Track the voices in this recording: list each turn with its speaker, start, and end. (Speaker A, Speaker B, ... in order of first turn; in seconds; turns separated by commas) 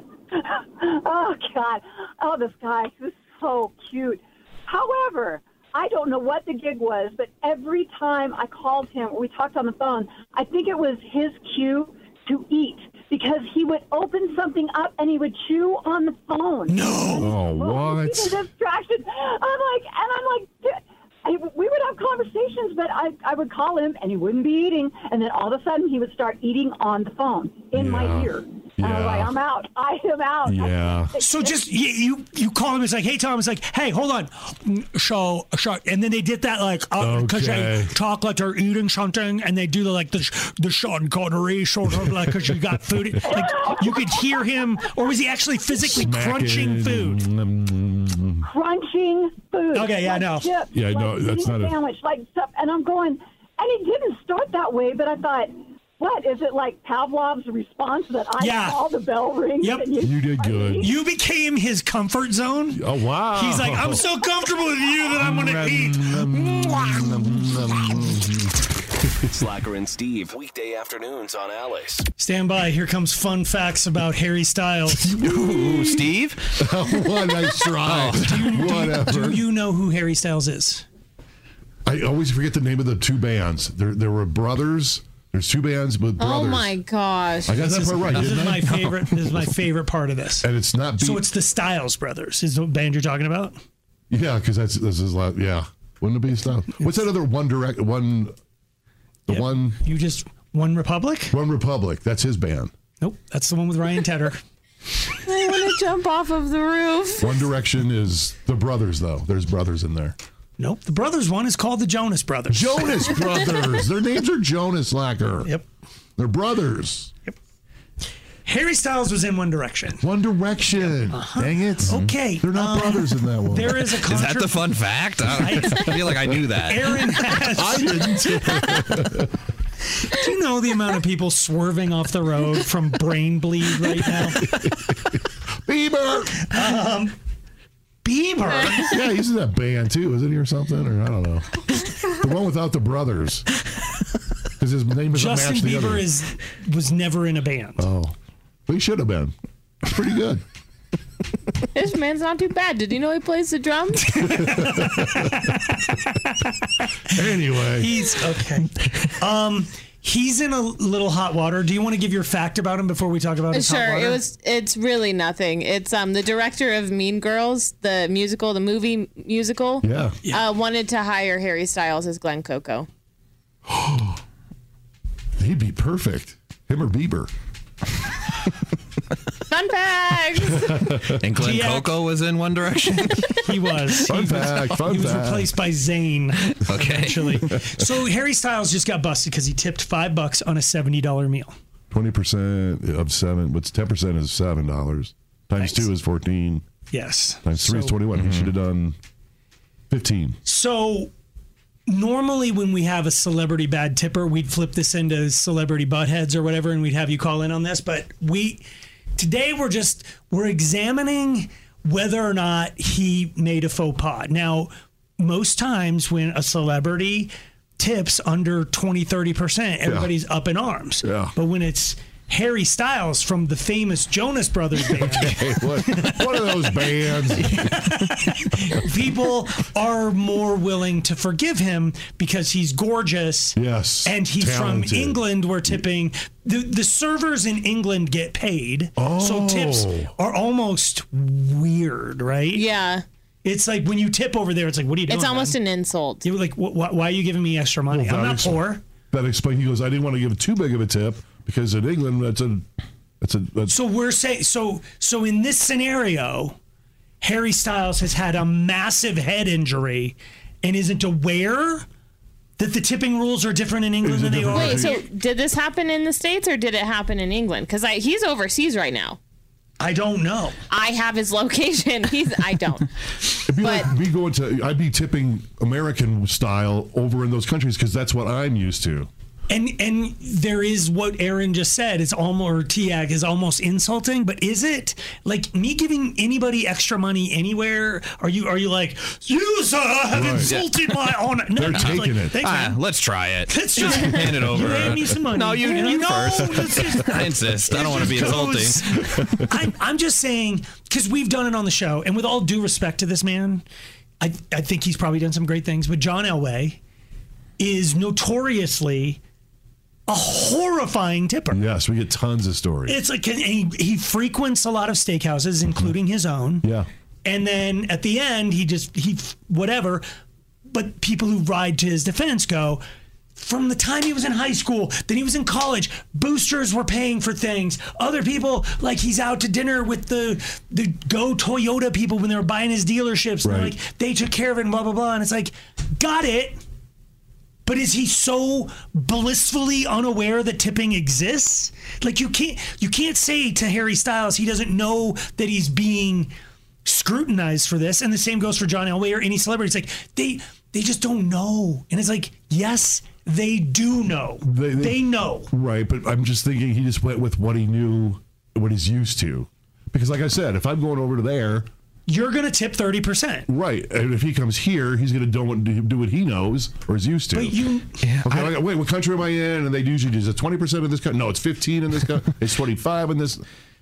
Speaker A: 0.3-31.7, Speaker B: 16.7-17.3, Speaker C: 17.1-18.4, Speaker C: 27.7-29.3, Speaker C: 30.4-31.1, Speaker B: 31.2-47.2, Speaker C: 37.0-37.9, Speaker C: 42.0-42.5, Speaker A: 43.3-44.4, Speaker C: 45.8-48.5, Speaker A: 48.4-60.9, Speaker B: 49.7-50.5, Speaker C: 50.7-51.8, Speaker B: 58.4-58.8, Speaker B: 59.6-59.9, Speaker C: 60.0-60.9, Speaker B: 60.8-62.8, Speaker C: 62.7-64.0, Speaker B: 63.3-66.1, Speaker C: 65.1-68.6, Speaker D: 69.3-72.0, Speaker B: 72.2-75.1, Speaker C: 75.0-76.0, Speaker E: 75.2-76.5, Speaker C: 76.6-79.4, Speaker E: 77.8-78.3, Speaker B: 78.2-80.8, Speaker C: 81.8-86.7, Speaker F: 86.2-87.8, Speaker C: 87.5-89.5, Speaker B: 87.5-90.5, Speaker C: 90.4-91.2, Speaker B: 91.0-93.6, Speaker C: 94.1-98.3, Speaker C: 99.3-99.8, Speaker B: 99.3-101.3, Speaker C: 101.3-102.7, Speaker B: 103.0-104.4, Speaker F: 105.2-107.3, Speaker C: 107.2-110.2, Speaker B: 110.6-113.2, Speaker C: 112.5-115.5, Speaker C: 116.2-117.1, Speaker B: 118.5-120.0, Speaker C: 120.0-124.1, Speaker B: 121.1-124.7, Speaker E: 124.1-127.0, Speaker B: 125.3-126.0, Speaker B: 126.6-128.5, Speaker C: 127.5-129.3, Speaker B: 130.0-134.5, Speaker C: 134.5-136.5, Speaker B: 136.4-137.1, Speaker B: 138.0-139.0, Speaker C: 138.7-143.4, Speaker C: 144.6-146.1, Speaker B: 145.1-147.8, Speaker C: 147.8-148.1, Speaker C: 148.7-149.3, Speaker C: 149.8-150.4, Speaker F: 151.7-154.3, Speaker B: 154.0-156.5, Speaker C: 154.5-155.3, Speaker C: 157.1-158.1, Speaker B: 157.8-164.2, Speaker F: 163.5-172.9, Speaker C: 169.8-170.2, Speaker C: 173.7-174.0, Speaker C: 175.4-177.3, Speaker F: 179.5-180.8, Speaker C: 180.6-181.2, Speaker E: 181.2-183.4, Speaker B: 181.3-181.9, Speaker B: 183.3-191.5, Speaker C: 184.1-185.6, Speaker E: 186.6-187.5, Speaker C: 191.9-196.7, Speaker B: 195.6-195.8, Speaker B: 196.9-198.0, Speaker C: 197.4-198.9, Speaker E: 198.2-198.5, Speaker C: 199.9-200.4, Speaker B: 200.4-201.1, Speaker B: 201.9-208.6, Speaker B: 209.2-226.7, Speaker C: 219.8-220.1, Speaker C: 221.0-221.3, Speaker C: 224.9-227.8, Speaker B: 227.3-242.6, Speaker C: 233.6-235.8, Speaker C: 239.0-240.1, Speaker F: 242.5-243.0, Speaker B: 243.4-245.6, Speaker F: 245.1-246.3, Speaker B: 246.2-248.8, Speaker C: 247.9-252.6, Speaker C: 253.2-253.7, Speaker B: 253.7-256.6, Speaker B: 257.2-261.9, Speaker B: 262.6-264.9, Speaker C: 264.0-265.0, Speaker F: 264.5-269.2, Speaker B: 269.8-270.6, Speaker F: 270.7-272.9, Speaker C: 273.5-279.1, Speaker F: 273.6-273.9, Speaker B: 279.5-292.8, Speaker C: 290.1-290.6, Speaker E: 290.4-291.0, Speaker C: 291.5-292.4, Speaker E: 291.7-299.2, Speaker B: 293.5-303.6, Speaker C: 294.5-295.0, Speaker B: 304.2-306.8, Speaker B: 307.6-309.2, Speaker B: 310.1-311.6, Speaker C: 311.5-313.0, Speaker B: 312.9-316.6, Speaker B: 317.2-320.0, Speaker B: 320.7-322.8, Speaker B: 323.4-336.6, Speaker C: 333.4-333.8, Speaker B: 337.6-346.3, Speaker B: 346.8-355.5, Speaker C: 354.4-361.7, Speaker B: 362.1-363.5, Speaker C: 363.5-367.6, Speaker B: 367.3-368.0, Speaker E: 368.0-368.5, Speaker C: 368.2-373.4